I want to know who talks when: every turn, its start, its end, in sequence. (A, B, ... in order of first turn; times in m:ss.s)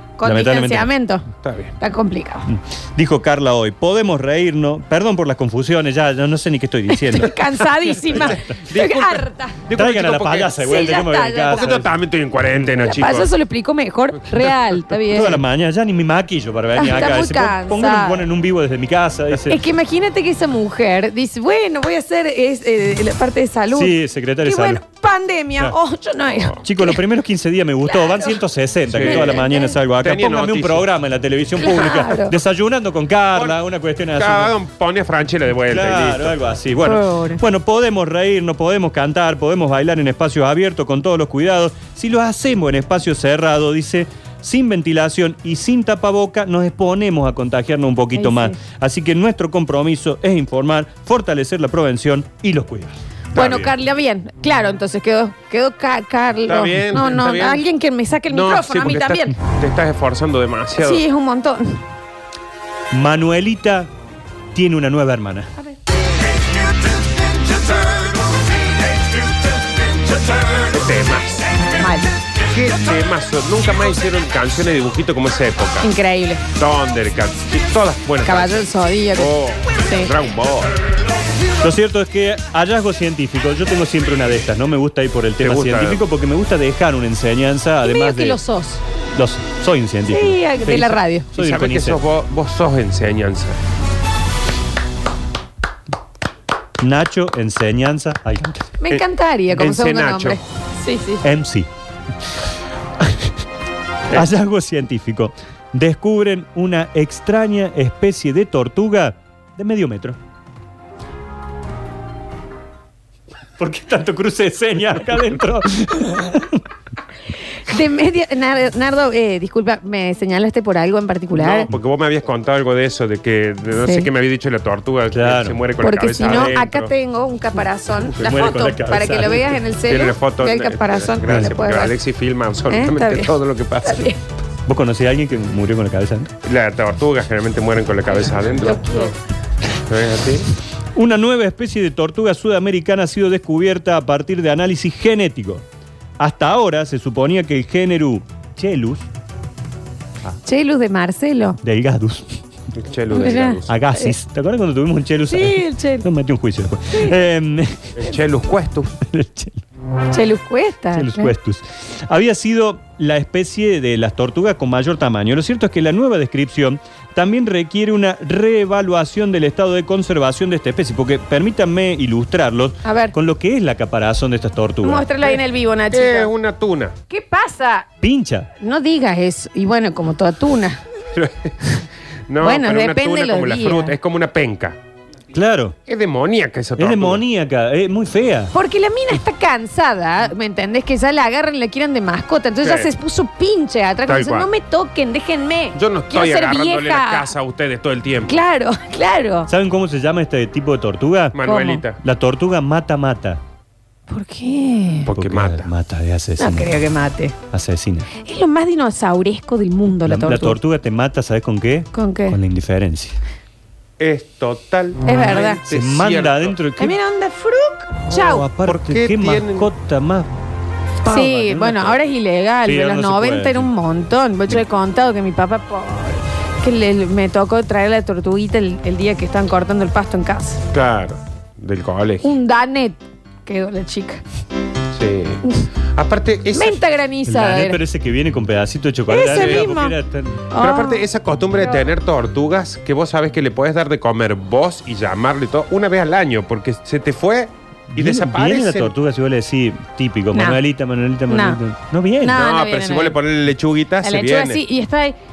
0:00.2-0:01.3 A
0:00.2-0:00.9 B
0:01.4-0:01.7 C
0:01.8-0:02.5 A
0:02.5-0:08.4 B
0:06.9-0:09.6 A
0:08.5-0:10.8 C
0:09.7-0:11.9 B
0:10.6-0:11.8 A
0:11.5-0:13.3 C
0:12.8-0:15.4 A
0:14.9-0:19.6 B
0:16.8-0:18.2 A
0:19.5-0:27.0 A
0:23.7-0:24.8 B
0:26.3-0:26.6 C
0:26.6-0:34.5 B
0:27.8-0:28.4 A
0:28.9-0:29.5 C
0:29.0-0:29.7 A
0:30.0-0:30.9 C
0:31.6-0:32.4 A
0:34.2-0:36.3 C
0:35.7-0:53.0 B
0:36.8-0:37.4 A
0:48.1-0:48.6 A
0:53.3-0:53.7 C
0:53.3-0:59.4 A
0:56.5-0:57.6 C
0:58.3-1:01.0 C
1:00.8-1:01.8 A
1:02.9-1:03.9 B
1:04.5-1:05.5 B
1:10.6-1:11.5 C
1:11.8-1:12.1 A
1:12.5-1:15.9 C
1:15.8-1:16.4 A
1:16.5-1:20.7 C
1:18.2-1:20.1 A
1:21.6-1:28.4 B
1:25.4-1:26.0 C
1:27.8-1:28.8 A
1:29.1-1:32.0 B
1:30.1-1:31.3 A
1:31.4-1:33.6 C
1:36.8-1:38.7 B
1:38.8-1:41.2 A
1:38.9-1:40.4 C
1:41.2-1:41.7 B
1:43.0-1:43.4 B
1:44.1-1:50.2 B
1:53.6-1:56.7 B
1:57.6-2:01.7 A
2:01.3-2:06.9 C
2:03.8-2:04.1 A
2:05.1-2:05.6 B
2:05.8-2:12.0 A
2:06.2-2:06.7 B
2:08.1-2:09.6 B
2:09.9-2:14.1 C
2:11.3-2:11.6 B
2:12.7-2:14.2 A
2:14.6-2:16.3 B
2:16.4-2:19.1 C
2:18.5-2:19.1 A
2:19.9-2:20.5 C
2:20.9-2:25.6 B
2:26.2-2:29.0 B
2:30.4-2:31.6 A
2:31.6-2:32.4 B
2:32.7-2:33.7 C
2:33.1-2:34.1 A
2:33.6-2:38.0 B
2:35.3-2:36.0 A
2:36.9-2:37.2 A
2:38.0-2:38.9 C
2:39.0-2:39.6 B
2:40.1-2:41.3 A
2:40.9-2:55.1 B
2:52.8-2:53.1 A
2:54.8-2:56.3 A
2:55.2-2:57.0 C
2:57.1-2:57.9 A
2:58.0-2:58.5 B
2:58.6-3:00.8 A
3:01.1-3:04.8 C
3:02.4-3:03.9 A
3:05.3-3:05.8 B
3:05.9-3:07.2 C
3:06.8-3:08.5 B
3:08.5-3:17.3 A
3:12.6-3:12.9 C
3:14.0-3:14.5 C
3:15.7-3:18.4 C
3:18.3-3:19.5 A
3:19.5-3:21.4 B
3:21.3-3:22.0 C
3:21.4-3:21.8 A
3:22.0-3:23.4 B
3:24.1-3:25.1 A
3:25.1-3:25.7 C
3:25.1-3:26.7 B
3:26.4-3:27.3 A
3:27.5-3:28.1 B
3:28.2-3:30.6 A
3:30.0-3:33.2 B
3:31.9-3:32.4 A
3:34.0-3:36.5 C
3:35.0-3:35.6 A
3:35.7-3:37.0 B
3:36.8-3:38.5 A
3:38.1-3:40.3 B
3:38.6-3:39.7 C
3:41.0-3:42.0 B
3:41.0-3:50.6 A
3:42.6-3:43.7 B
3:50.7-3:52.3 C
3:52.2-3:54.2 A
3:54.9-3:55.4 C
3:55.9-3:56.8 C
3:56.5-3:57.8 A
3:57.3-4:00.5 B
3:59.1-4:00.0 A
3:59.3-3:59.6 C
4:00.5-4:01.1 A
4:00.6-4:08.9 C
4:07.9-4:12.4 B
4:10.3-4:10.6 A
4:11.3-4:11.6 A
4:12.2-4:13.2 A
4:12.3-4:14.6 C
4:14.0-4:15.2 A